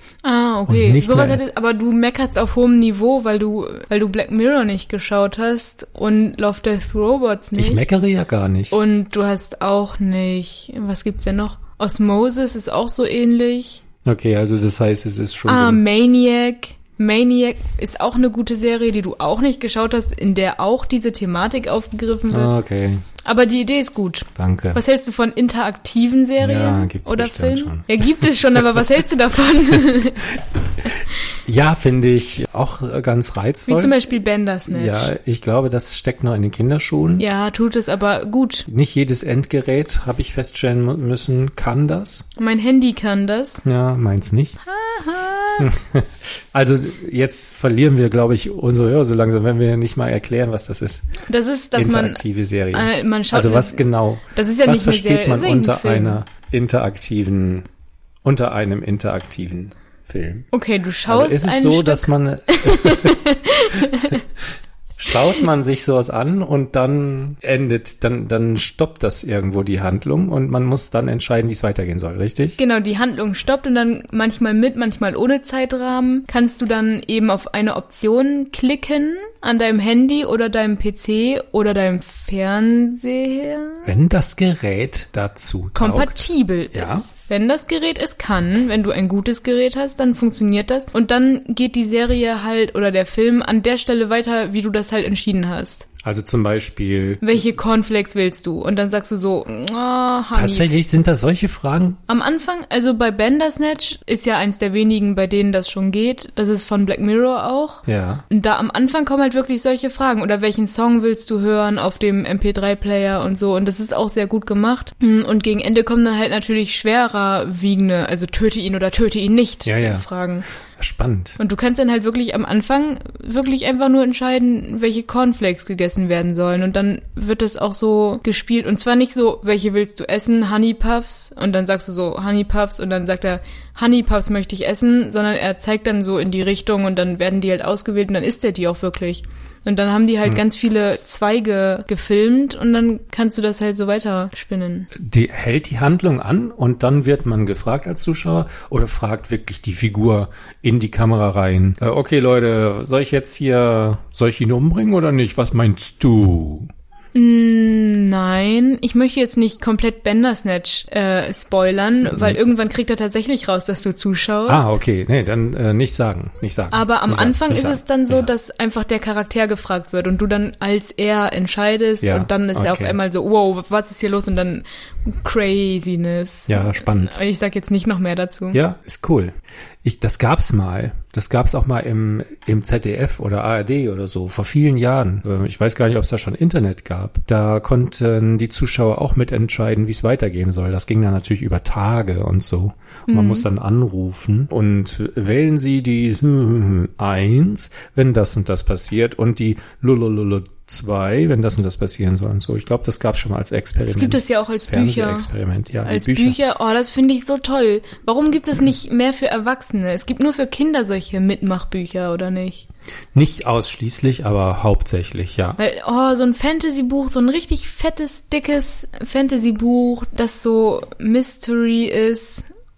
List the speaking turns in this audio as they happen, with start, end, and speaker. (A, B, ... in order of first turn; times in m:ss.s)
0:00.2-0:07.8 A
0:00.7-0:01.4 B
0:07.6-0:08.8 B
0:08.7-0:13.8 A
0:14.0-0:15.8 B
0:15.5-0:22.5 A
0:22.3-0:23.1 B
0:23.2-0:30.3 A
0:24.4-0:24.8 B
0:26.4-0:28.2 B
0:30.8-0:34.0 B
0:33.7-0:35.1 A
0:34.7-0:37.2 B
0:37.2-0:38.7 A
0:38.7-0:42.3 B
0:42.4-0:43.6 A
0:43.6-0:44.6 B
0:44.6-0:45.7 A
0:45.6-0:51.2 B
0:51.2-0:56.2 A
0:51.8-0:57.7 B
0:58.2-1:00.5 B
1:00.5-1:04.2 A
1:01.1-1:03.2 B
1:03.8-1:04.2 B
1:05.0-1:12.6 B
1:12.6-1:23.9 A
1:23.8-1:27.1 B
1:25.8-1:35.9 A
1:36.0-1:37.3 B
1:37.2-1:40.8 A
1:40.3-1:42.0 B
1:42.1-2:00.4 A
1:47.9-1:48.2 B
1:59.6-2:00.0 B
2:00.8-2:01.4 B
2:01.4-2:24.9 A
2:24.9-2:36.7 B
2:37.1-2:44.7 A
2:42.0-2:42.4 B
2:44.5-2:48.3 B
2:46.7-2:58.6 A
2:52.0-2:53.0 B
2:56.5-2:57.2 B
2:58.5-3:26.4 B
3:13.1-3:13.5 A
3:23.9-3:25.3 A
3:25.8-3:32.7 A
3:33.1-3:35.6 B
3:35.6-3:42.4 A